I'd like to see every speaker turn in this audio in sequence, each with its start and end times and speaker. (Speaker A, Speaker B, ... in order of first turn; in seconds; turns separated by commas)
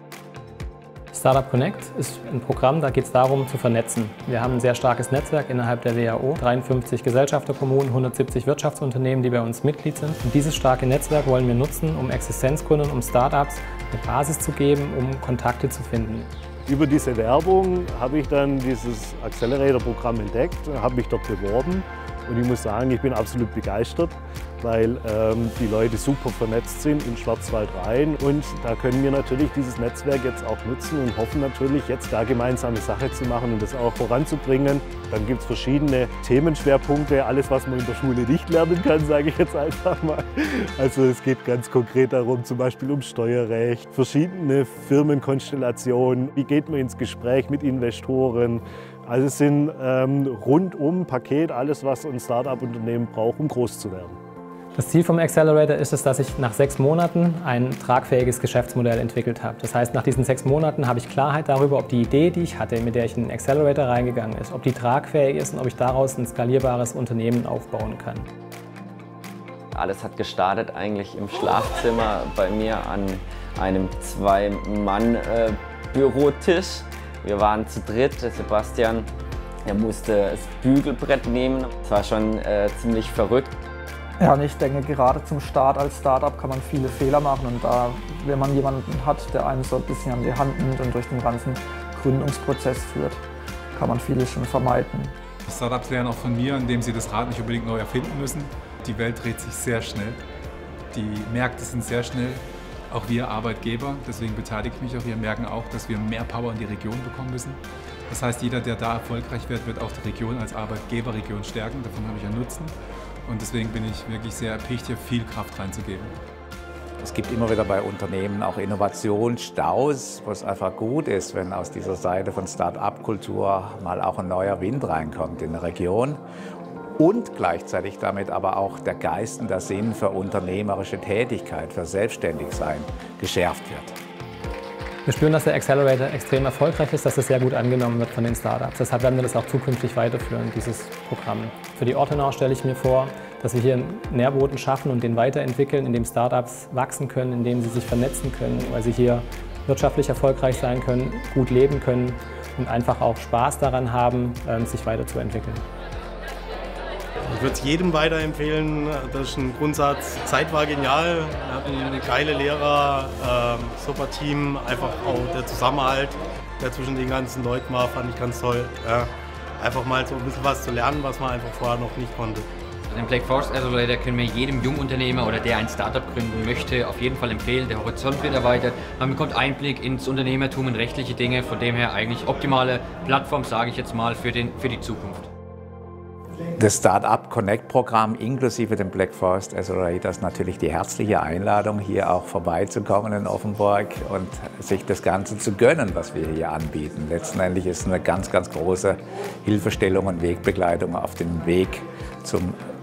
Speaker A: 1.1-16.3, Speaker B: 16.7-54.2, Speaker A: 54.8-68.2, Speaker C: 69.7-79.1, Speaker C: 79.7-83.5, Speaker D: 84.2-93.2, Speaker D: 93.8-95.1, Speaker E: 95.5-100.2, Speaker E: 100.9-112.7, Speaker E: 113.3-116.1, Speaker F: 117.0-126.2, Speaker F: 127.0-134.0, Speaker A: 135.1-155.6, Speaker G: 157.3-172.4, Speaker H: 172.9-185.3, Speaker F: 186.6-202.6